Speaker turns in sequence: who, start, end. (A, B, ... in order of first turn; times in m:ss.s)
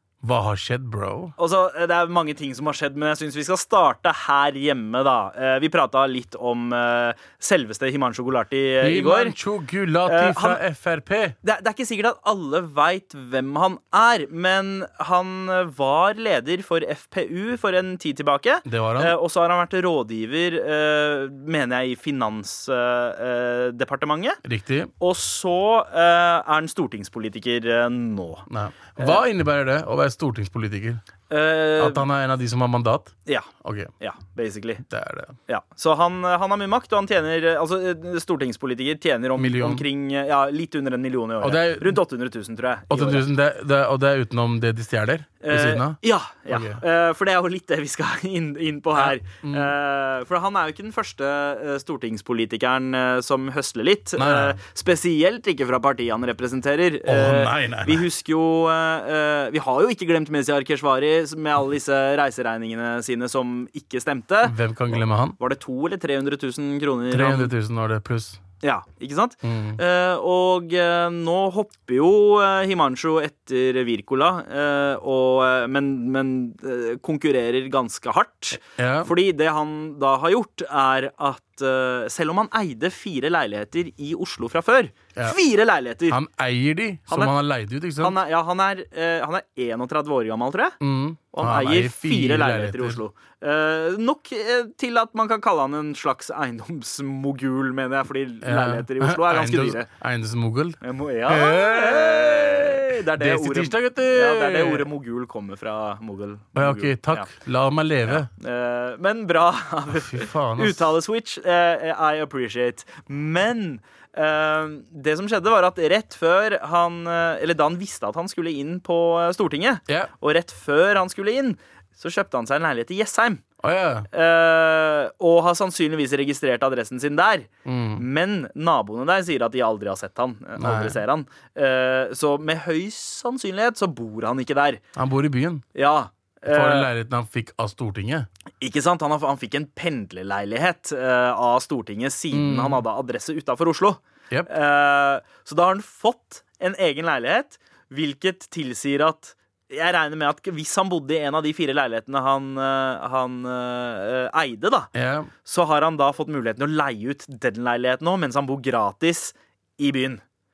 0:00.2-0:01.4 A
0:01.4-0:09.4 B
0:08.8-0:11.4 A
0:10.0-0:10.6 B
0:11.4-0:24.4 B
0:18.6-0:19.2 A
0:24.4-0:24.9 A
0:25.0-0:28.5 B
0:28.5-0:31.0 A
0:29.0-0:29.2 B
0:31.3-0:32.1 B
0:31.8-0:33.9 A
0:33.3-0:34.8 B
0:34.8-0:35.4 A
0:35.5-0:43.3 B
0:39.4-0:39.8 A
0:41.4-0:42.0 A
0:42.9-0:46.8 A
0:45.4-1:07.5 B
0:49.0-0:49.7 A
0:54.2-0:54.6 A
0:57.1-0:58.0 A
1:04.4-1:05.4 A
1:07.1-1:08.4 A
1:08.6-1:26.2 B
1:09.4-1:09.8 A
1:18.8-1:19.1 A
1:26.1-1:28.2 A
1:27.1-1:27.4 B
1:28.0-1:30.8 B
1:30.8-1:33.0 A
1:31.3-1:39.9 B
1:38.4-1:44.9 A
1:40.8-1:47.3 B
1:46.6-1:48.3 A
1:48.0-2:03.4 B
1:49.9-1:50.9 A
2:03.6-2:04.1 A
2:04.1-2:14.8 B
2:07.7-2:08.0 A
2:10.6-2:11.0 A
2:15.0-2:15.6 A
2:15.8-2:16.9 B
2:16.5-2:18.3 A
2:18.6-2:34.9 B
2:22.3-2:22.8 A
2:34.9-2:35.3 A
2:35.4-2:40.2 B